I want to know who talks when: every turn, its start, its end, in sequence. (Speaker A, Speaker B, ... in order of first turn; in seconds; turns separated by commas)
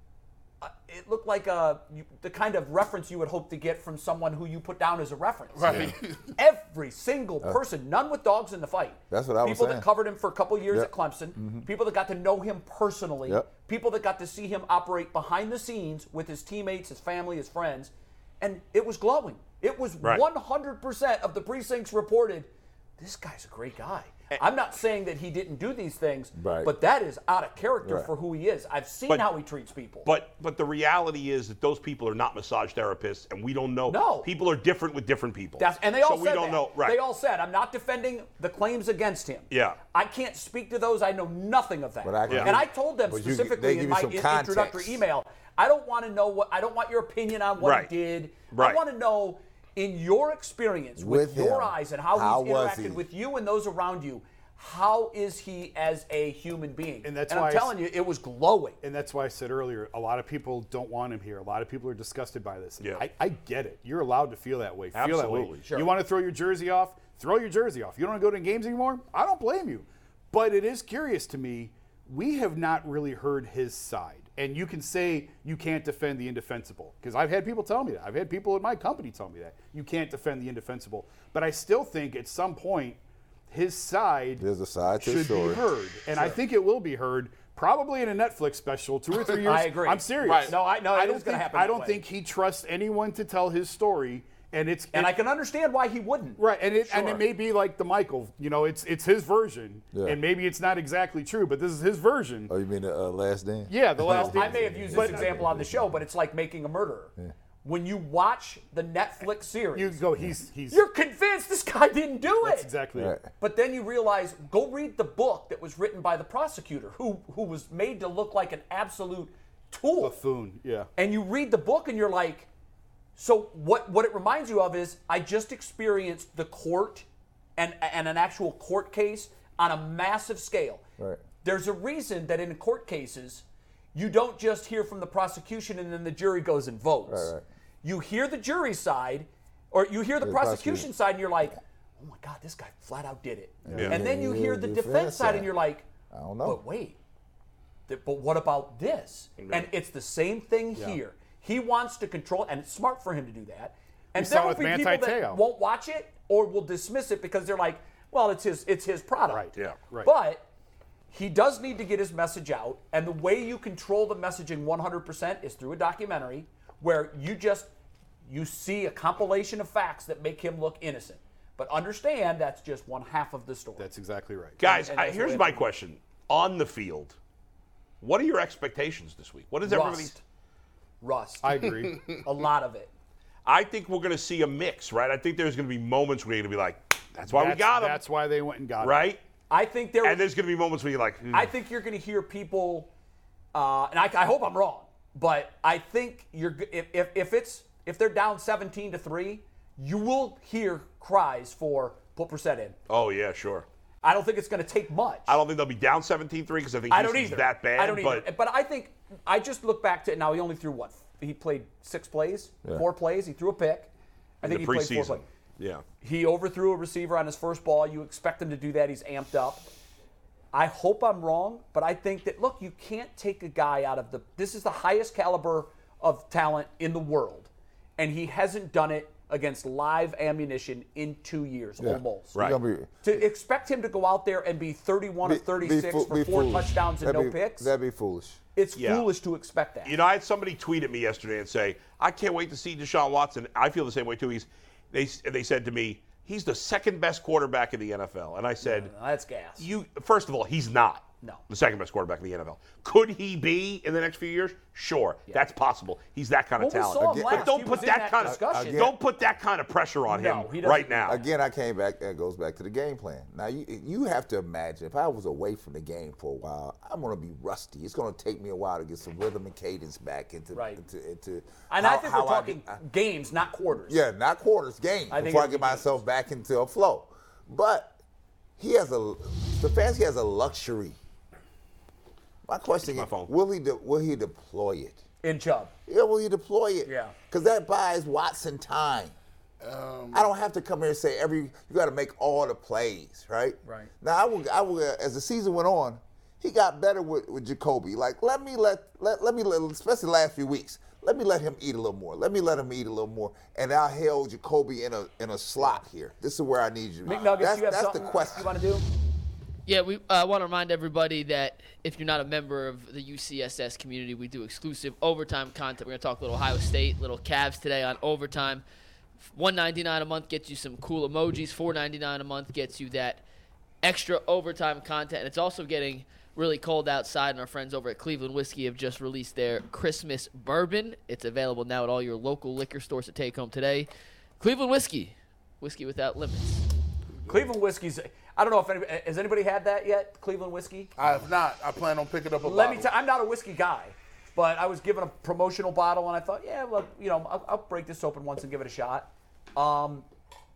Speaker A: 0.6-30.1, Speaker B: 5.5-6.3, Speaker C: 9.1-9.8, Speaker C: 10.7-11.7, Speaker C: 26.4-26.7, Speaker C: 27.8-28.1, Speaker D: 30.0-37.0, Speaker A: 33.9-34.3, Speaker A: 35.6-58.8, Speaker D: 39.5-39.8, Speaker C: 42.0-45.0, Speaker D: 42.3-42.5, Speaker D: 47.6-47.9, Speaker D: 48.5-48.8, Speaker C: 51.0-53.0, Speaker E: 57.0-57.8, Speaker E: 58.8-83.0, Speaker D: 64.9-65.6, Speaker A: 65.6-65.9, Speaker E: 83.5-84.4, Speaker C: 84.4-85.6, Speaker E: 85.0-95.1, Speaker A: 89.4-92.0, Speaker B: 90.2-90.5, Speaker A: 94.9-97.2, Speaker E: 96.4-102.5, Speaker C: 99.9-100.2, Speaker C: 102.5-105.9, Speaker E: 103.7-105.4, Speaker A: 104.0-110.0, Speaker E: 109.7-110.8, Speaker A: 110.7-112.7, Speaker E: 112.4-113.2, Speaker C: 112.9-113.2, Speaker A: 113.4-120.2, Speaker E: 120.0-120.9, Speaker A: 121.0-122.5, Speaker A: 123.2-130.8, Speaker A: 131.4-145.9, Speaker C: 137.1-137.4, Speaker C: 140.2-140.9, Speaker C: 143.7-145.5, Speaker C: 146.1-146.6, Speaker A: 146.4-147.0, Speaker A: 147.9-159.5, Speaker D: 149.4-149.7, Speaker E: 154.1-155.4, Speaker E: 159.2-160.1, Speaker A: 160.0-160.4, Speaker A: 161.1-167.7, Speaker A: 168.2-173.9, Speaker E: 173.8-174.6, Speaker D: 174.6-177.2, Speaker A: 174.6-175.7, Speaker D: 178.0-180.1, Speaker A: 179.6-180.2, Speaker A: 181.0-182.9, Speaker E: 181.4-182.0, Speaker D: 183.4-188.0, Speaker E: 187.2-189.1, Speaker D: 188.8-189.2, Speaker A: 189.5-190.3, Speaker D: 190.0-191.4, Speaker A: 191.3-192.9, Speaker A: 193.5-202.8, Speaker D: 202.9-203.6, Speaker A: 204.0-205.4, Speaker D: 205.3-208.3, Speaker A: 206.9-213.9, Speaker A: 214.4-215.2, Speaker D: 214.4-215.8, Speaker A: 216.0-219.6, Speaker A: 220.5-232.4, Speaker C: 231.8-233.2, Speaker A: 233.0-237.7, Speaker C: 235.2-238.4, Speaker A: 238.5-240.0, Speaker D: 238.8-239.1, Speaker D: 239.8-248.9, Speaker A: 248.6-249.7, Speaker D: 249.6-261.2, Speaker A: 256.6-258.9, Speaker C: 257.0-258.9, Speaker A: 260.1-261.2, Speaker C: 261.1-272.8, Speaker A: 270.5-270.8, Speaker A: 271.7-274.0, Speaker C: 273.9-277.9, Speaker A: 275.1-275.9, Speaker C: 278.6-280.9, Speaker C: 282.4-285.0, Speaker D: 282.8-283.3, Speaker A: 285.2-285.7, Speaker C: 285.9-289.1, Speaker A: 286.8-287.1, Speaker B: 289.6-290.3, Speaker C: 290.1-308.5, Speaker A: 293.6-293.9, Speaker A: 307.0-308.8, Speaker F: 309.6-318.6, Speaker F: 319.3-323.2, Speaker F: 323.8-333.9, Speaker F: 334.4-336.6, Speaker A: 337.3-340.9, Speaker B: 341.0-342.9, Speaker A: 342.4-350.1